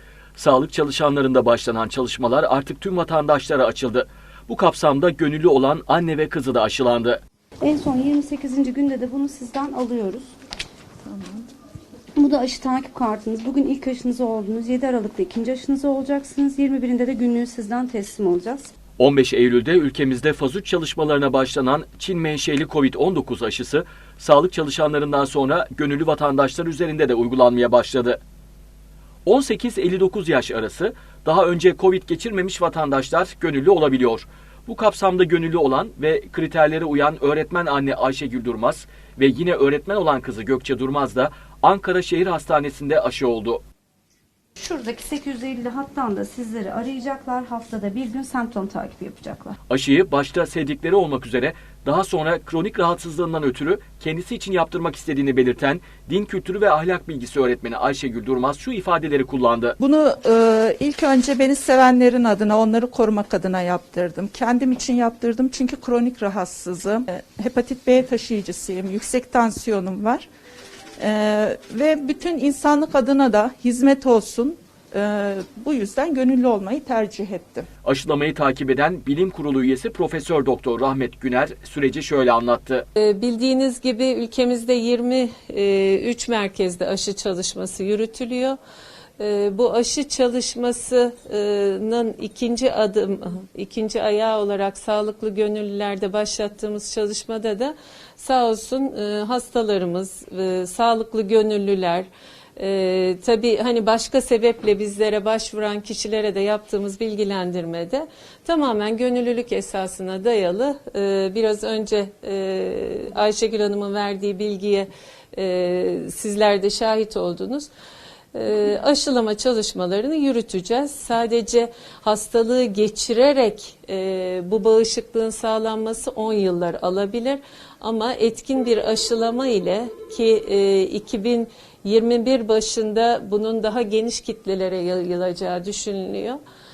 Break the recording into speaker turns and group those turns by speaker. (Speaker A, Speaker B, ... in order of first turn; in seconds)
Speaker A: 0.4-7.2, 19.0-28.2, 29.3-43.6, 49.7-59.8, 77.8-82.8
Speaker B: 7.6-10.3, 12.2-18.7, 44.6-49.6
Speaker C: 11.1-11.4, 59.8-70.3, 71.0-77.7
Speaker D: 83.0-88.6, 89.2-117.7, 118.3-136.4